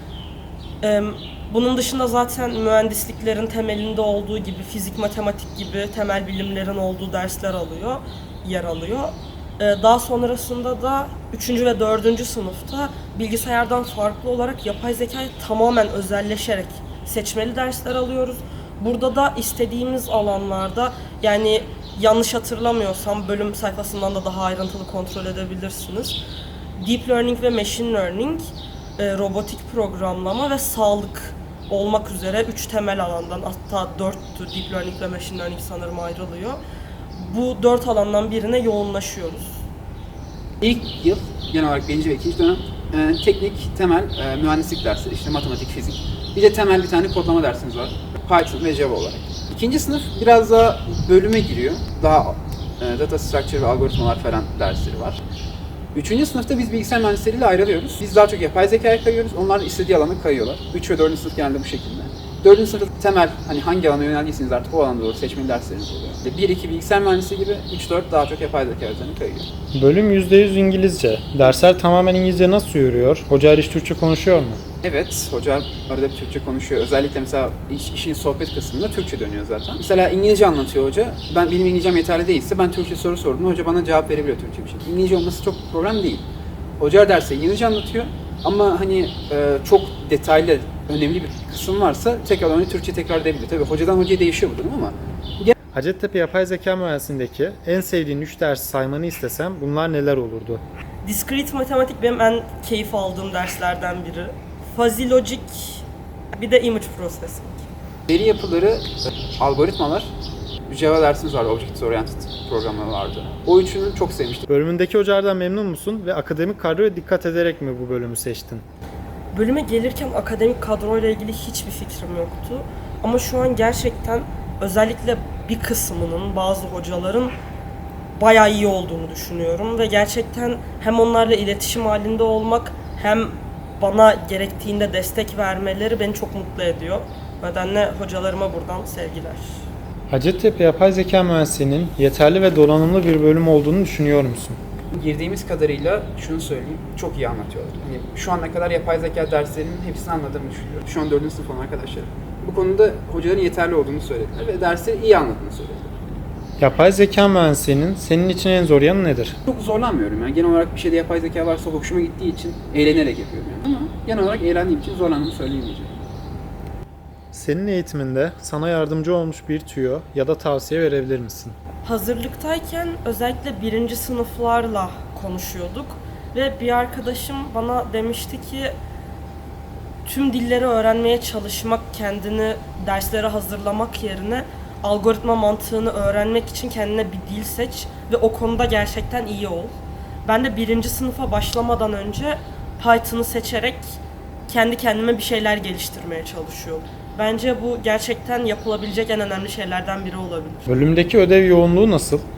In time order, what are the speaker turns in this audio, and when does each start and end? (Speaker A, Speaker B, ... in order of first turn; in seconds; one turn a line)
Speaker A: 0.8-26.2
Speaker A: 26.8-36.6
Speaker A: 37.1-39.6
Speaker B: 40.6-55.2
Speaker B: 55.9-69.5
Speaker C: 69.7-74.6
Speaker B: 74.8-86.2
Speaker B: 86.8-95.5
Speaker C: 95.7-100.6
Speaker A: 101.0-107.7
Speaker B: 108.1-110.1
Speaker B: 110.7-114.5
Speaker C: 114.5-118.6
Speaker A: 119.3-127.3
Speaker A: 128.2-139.6
Speaker C: 140.1-144.6
Speaker B: 144.9-155.9
Speaker C: 156.6-159.4
Speaker B: 159.4-166.0
Speaker C: 167.3-171.6
Speaker A: 171.8-178.7
Speaker A: 180.0-200.8
Speaker C: 200.7-202.2